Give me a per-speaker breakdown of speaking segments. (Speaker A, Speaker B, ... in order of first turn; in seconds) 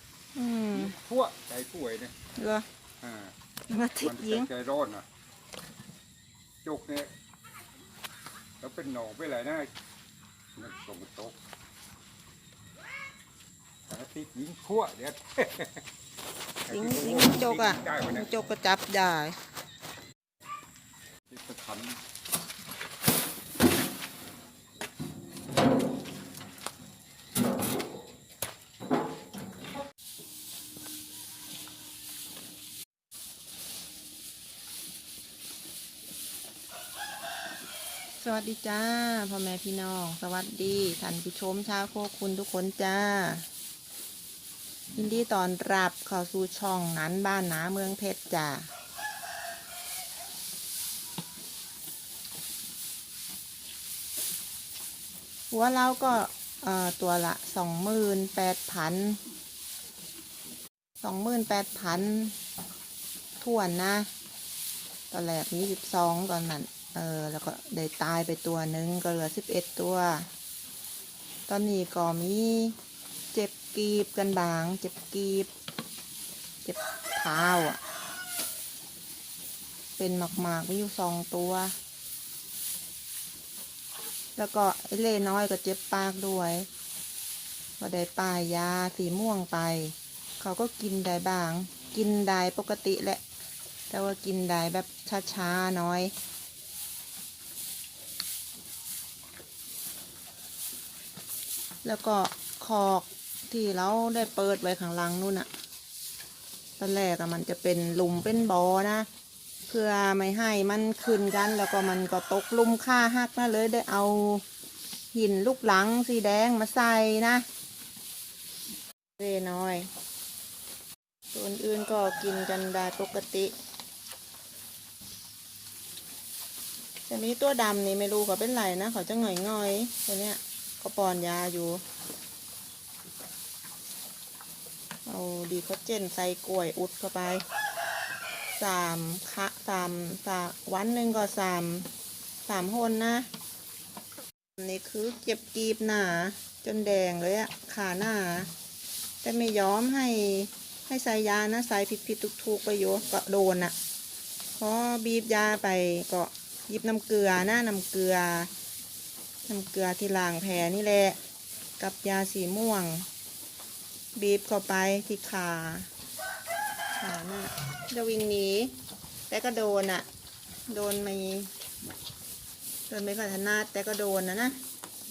Speaker A: 0.3-0.9, 2.4-2.7, 3.7-4.5, 16.7-19.4, 38.2-43.5, 45.0-48.7, 55.5-59.2, 61.0-62.4, 63.4-64.1, 65.1-70.3, 71.5-72.8, 73.3-75.5, 76.6-77.8, 80.0-81.8, 84.4-86.7, 87.8-93.2, 93.9-96.1, 101.8-105.5, 106.8-109.1, 109.7-114.4, 115.1-117.5, 119.2-119.9, 121.3-123.5, 127.1-131.8, 135.1-137.4, 138.6-141.9, 142.4-143.3, 144.6-148.5, 149.2-153.8, 154.6-158.5, 159.5-161.2, 161.8-163.1, 164.2-165.9, 167.0-168.7, 169.3-170.1, 170.7-171.5, 172.9-174.6
Speaker B: 0.7-2.1, 3.0-3.3, 4.0-5.1, 6.6-7.1, 8.6-9.7, 10.6-11.4, 13.9-15.8, 16.7-18.3, 21.3-22.0